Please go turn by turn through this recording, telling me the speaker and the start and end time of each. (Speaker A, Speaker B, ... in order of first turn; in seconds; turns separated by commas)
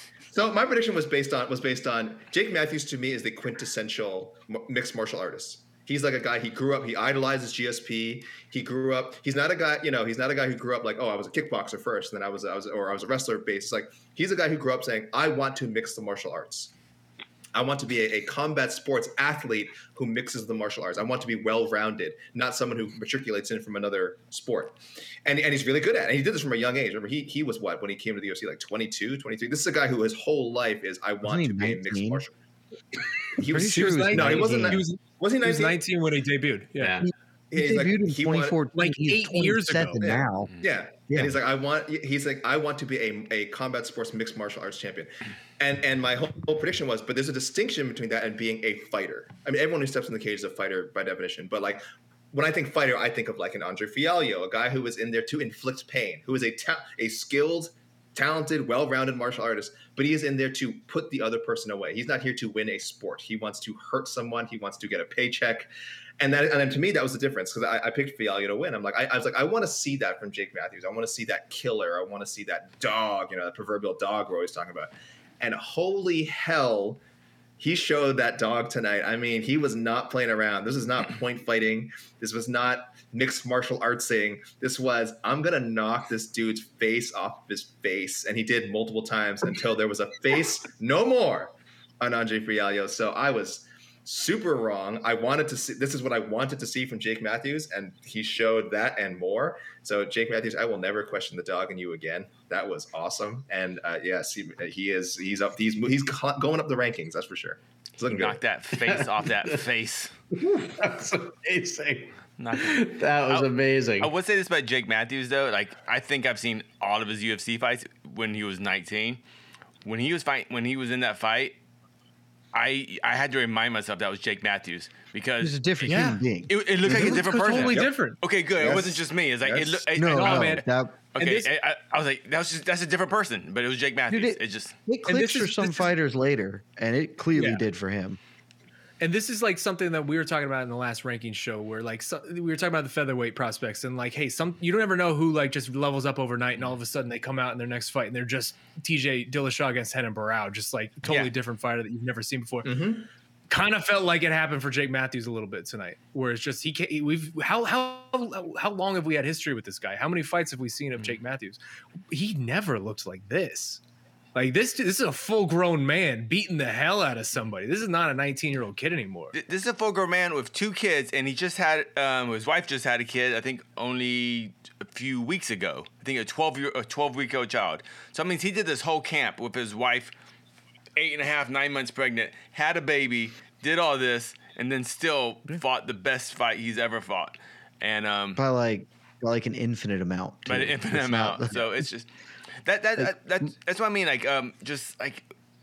Speaker A: 0.3-16.7, Speaker A: 17.5-32.3, Speaker B: 31.2-32.2, Speaker A: 33.4-35.8, Speaker B: 33.4-34.8, Speaker C: 33.6-37.0, Speaker D: 36.8-37.0, Speaker A: 37.5-38.6, Speaker B: 37.5-40.5, Speaker C: 38.7-40.0, Speaker A: 40.0-77.0, Speaker B: 41.1-41.4, Speaker A: 77.6-108.4, Speaker E: 108.1-110.1, Speaker D: 108.8-109.5, Speaker D: 110.3-114.1, Speaker E: 112.4-119.2, Speaker E: 119.8-121.6, Speaker E: 122.5-125.6, Speaker B: 125.4-127.6, Speaker C: 125.8-126.2, Speaker E: 126.5-130.6, Speaker C: 126.8-128.2, Speaker B: 128.6-129.0, Speaker A: 129.4-129.7, Speaker B: 129.9-131.0, Speaker C: 130.0-131.5, Speaker E: 131.1-134.8, Speaker B: 134.1-138.2, Speaker C: 135.1-135.9, Speaker C: 137.3-137.6, Speaker C: 139.0-152.7, Speaker A: 152.6-153.1, Speaker C: 153.5-161.6, Speaker C: 162.1-163.8, Speaker C: 164.3-169.3, Speaker E: 169.3-180.1, Speaker E: 180.9-188.4, Speaker B: 188.3-191.9, Speaker E: 190.5-192.1, Speaker E: 192.6-195.3